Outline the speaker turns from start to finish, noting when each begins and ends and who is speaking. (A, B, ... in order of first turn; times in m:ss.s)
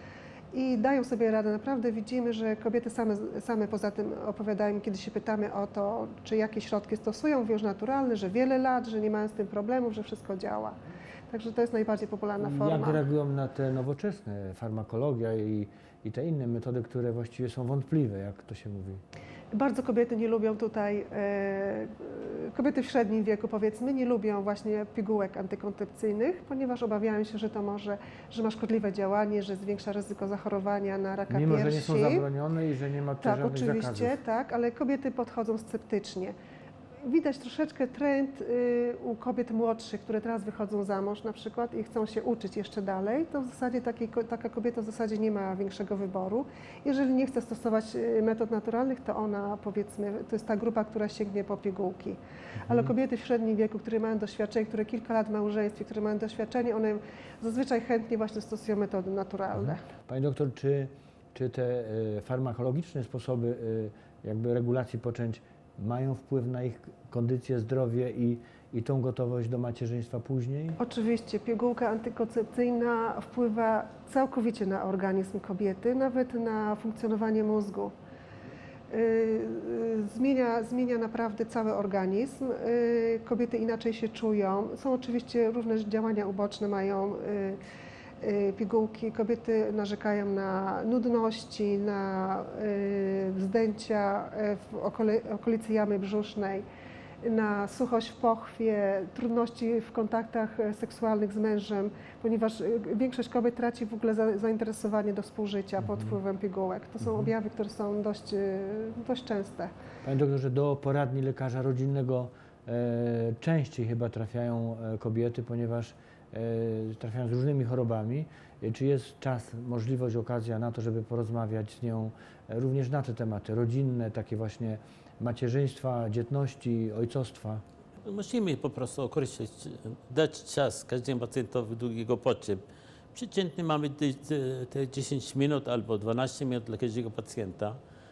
0:00.5-0:10.8 A
0:11.3-0:13.0 A
0:12.4-0:19.0 B
0:19.5-0:32.2 A
0:31.3-0:34.2 B
0:33.2-0:36.4 A
0:37.0-0:59.8 A
0:52.6-0:52.9 B
0:59.5-1:10.8 B
1:10.8-1:17.9 A
1:18.9-1:27.6 A
1:28.2-1:36.6 A
1:37.2-1:49.7 A
1:45.8-1:46.2 B
1:47.0-1:47.3 B
1:50.0-2:07.6 B
2:08.0-2:12.6 C
2:13.1-2:17.8 C